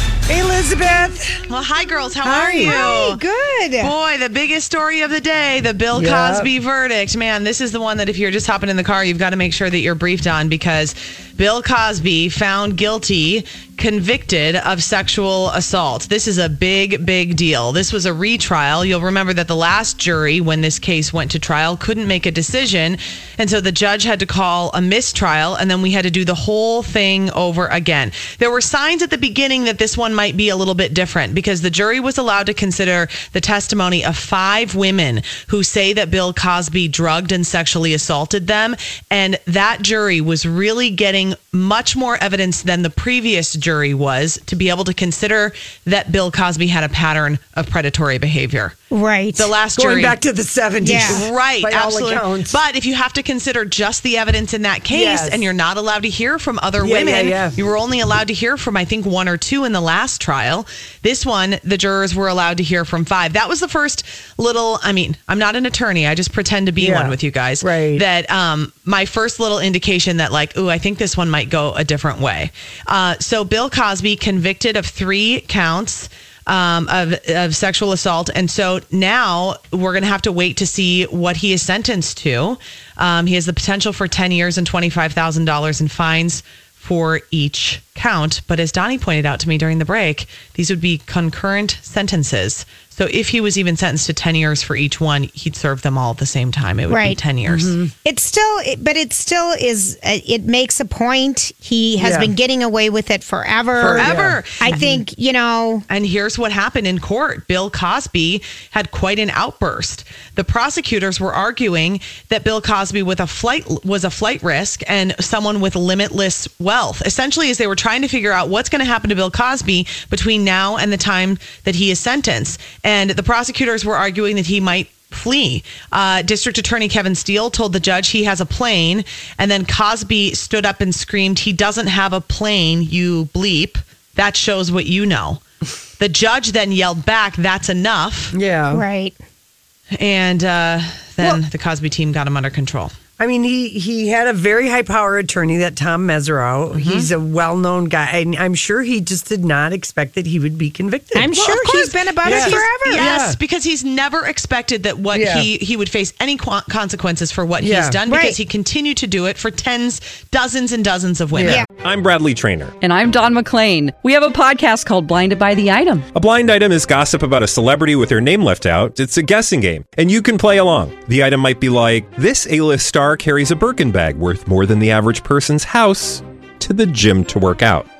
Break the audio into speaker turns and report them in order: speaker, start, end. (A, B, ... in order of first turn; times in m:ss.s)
0:00.3-0:01.4 A
0:01.5-0:03.2 B
0:02.2-0:03.0 A
0:02.6-0:03.9 C
0:03.8-0:48.7 B
0:05.9-0:06.5 A
0:48.9-0:49.5 C
0:49.4-0:50.2 B
0:49.8-0:52.6 A
0:50.8-0:51.2 C
0:50.9-1:37.7 B
0:54.9-0:55.4 A
0:56.8-0:57.6 A
1:06.8-1:08.0 A
1:36.9-1:37.2 C
1:37.5-1:37.9 A
1:38.0-1:45.8 C
1:42.0-1:42.3 A
1:43.8-1:45.0 A
1:43.8-1:44.8 B
1:45.9-2:15.4 B
2:16.0-2:18.3 B
2:18.3-2:18.8 A
2:18.7-2:19.2 C
2:20.0-2:22.9 B
2:23.2-2:33.4 A
2:26.7-2:27.1 B
2:31.1-2:33.0 C
2:32.2-2:41.6 B
2:35.1-2:35.5 A
2:37.6-2:38.0 A
2:38.1-2:38.4 C
2:41.3-2:41.6 A
2:41.8-2:42.7 D
2:42.8-2:46.0 E
2:46.1-2:57.9 D